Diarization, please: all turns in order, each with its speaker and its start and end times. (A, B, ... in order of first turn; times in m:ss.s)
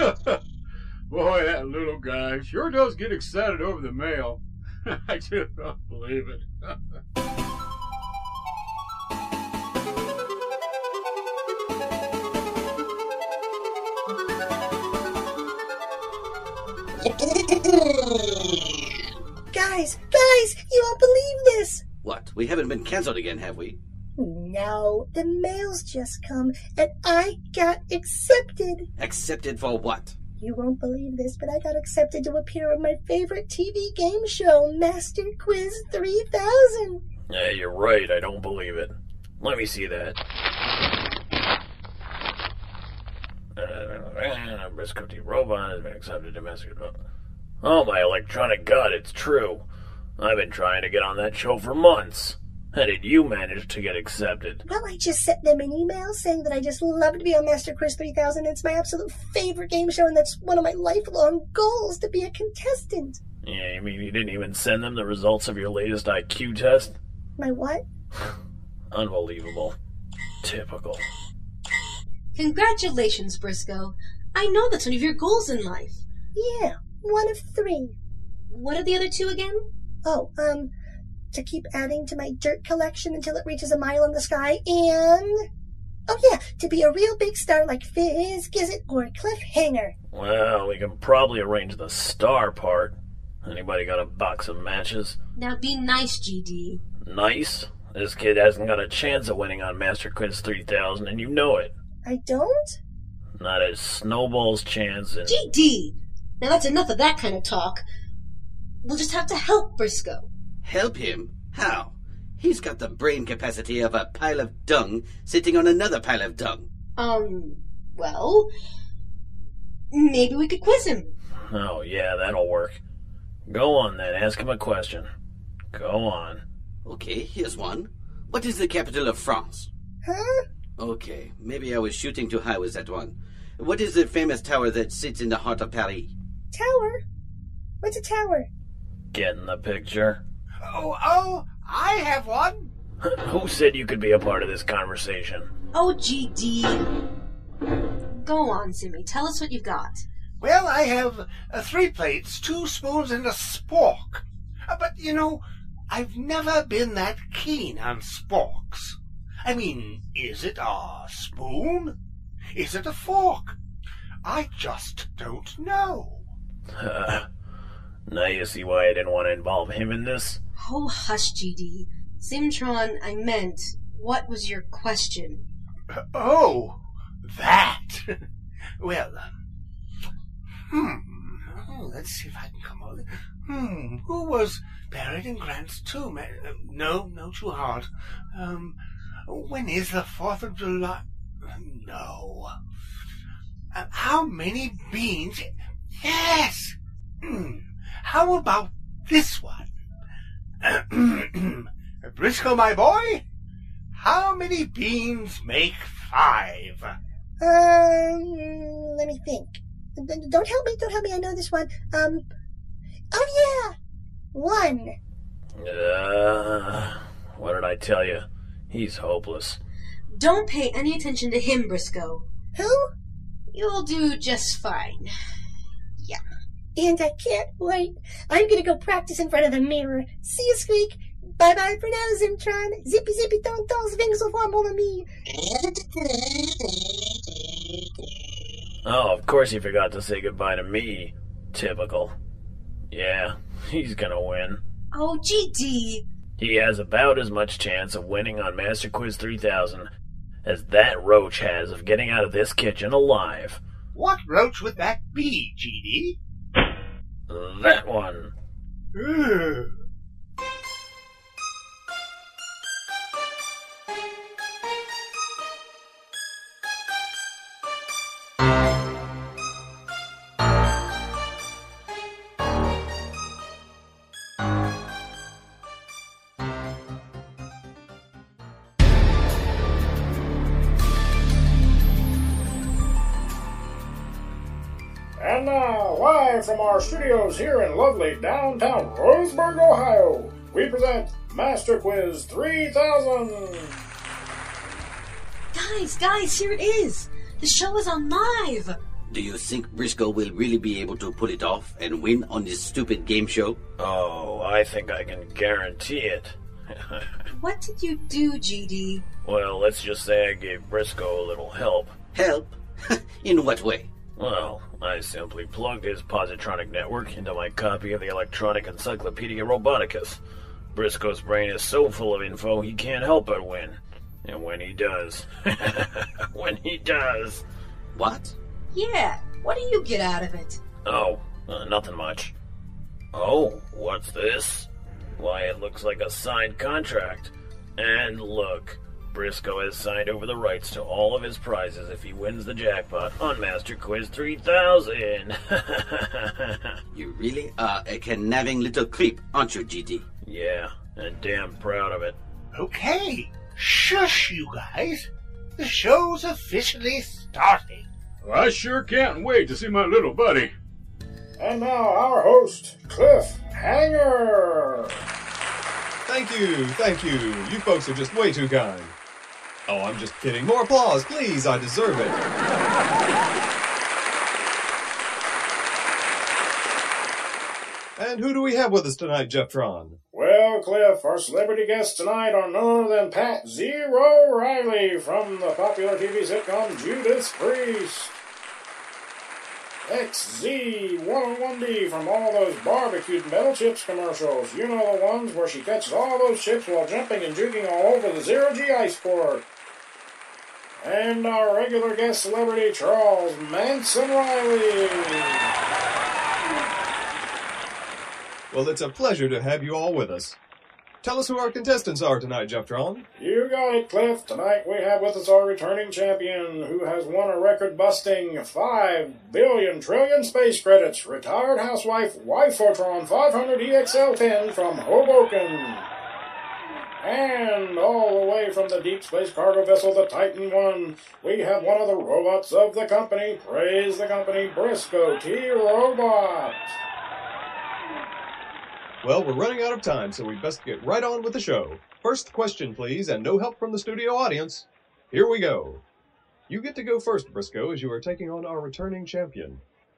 0:19.5-0:21.8 A
0:22.0-0:23.8 B
0:24.2-0:28.8 A
0:29.0-0:30.2 B
0:30.4-0:37.0 A
0:37.3-0:40.2 C
0:43.6-0:46.9 C
0:47.6-0:49.6 C
0:50.2-0:54.6 C
0:54.7-1:03.2 A
1:03.4-1:07.0 C
1:07.4-1:07.8 A
1:08.9-1:09.8 C
1:10.4-1:11.0 C
1:12.3-1:16.0 D
1:16.3-1:17.9 A
1:18.5-1:19.7 D
1:20.0-1:20.7 A
1:21.3-1:25.4 A
1:26.1-1:29.9 A
1:30.1-1:35.2 C
1:35.4-1:36.8 D
1:37.0-1:41.7 C
1:42.0-1:42.8 A
1:43.4-1:45.4 C
1:45.2-1:47.8 D
1:48.8-1:50.2 D
1:50.6-1:56.7 B
1:57.0-1:58.5 D
1:59.9-2:01.1 D
2:01.5-2:02.8 C
2:03.5-2:05.1 C
2:05.7-2:06.4 C
2:06.8-2:09.7 B
2:10.0-2:10.4 A
2:10.8-2:16.1 B
2:16.5-2:17.0 A
2:17.8-2:18.5 A
2:19.1-2:20.2 C
2:20.6-2:22.7 E
2:23.1-2:25.5 C
2:25.7-2:26.9 D
2:28.2-2:30.0 D
2:30.4-2:41.9 E
2:42.5-2:43.6 E
2:44.2-2:46.2 E
2:46.8-2:47.2 C
2:48.1-2:50.4 C
2:50.6-2:55.4 D
2:56.1-2:58.0 E
2:58.8-2:59.3 E
3:00.7-3:08.7 E
3:09.3-3:11.0 E
3:11.6-3:12.5 E
3:13.7-3:15.4 E
3:16.0-3:19.6 E
3:20.6-3:23.2 E
3:23.9-3:26.9 E
3:27.4-3:32.2 A
3:33.1-3:33.7 A
3:34.3-3:35.0 A
3:35.6-3:39.6 C
3:40.1-3:42.2 D
3:42.6-3:42.9 A
3:43.5-3:45.1 D
3:46.8-3:55.1 A
3:58.8-4:02.1 C
4:02.9-4:04.6 C
4:04.9-4:06.0 D
4:06.4-4:09.9 C
4:10.4-4:13.6 C
4:13.9-4:16.2 E
4:17.3-4:18.3 C
4:19.0-4:19.6 E
4:45.2-4:53.8 F
4:55.5-4:58.8 D
4:59.1-5:03.6 B
5:03.8-5:07.2 C
5:07.3-5:09.0 D
5:09.2-5:11.9 C
5:12.1-5:13.9 B
5:14.2-5:20.2 C
5:20.7-5:27.4 C
5:27.9-5:28.3 B
5:28.7-5:30.6 D
5:30.8-5:32.3 C
5:33.1-5:46.8 C
5:46.9-5:50.0 B
5:50.2-5:52.2 C
5:52.5-5:57.8 E
5:58.2-6:00.5 G
6:01.4-6:04.9 F
6:06.1-6:08.9 H
6:09.7-6:12.2 H
6:18.0-6:20.0 H
6:20.1-6:28.1 F
6:29.8-6:39.4 F
6:40.8-6:45.4 F
6:48.5-6:50.4 H
6:51.0-6:53.1 H
6:53.2-7:05.9 F
7:07.0-7:16.8 F
7:19.0-7:25.8 H
7:26.5-7:29.6 H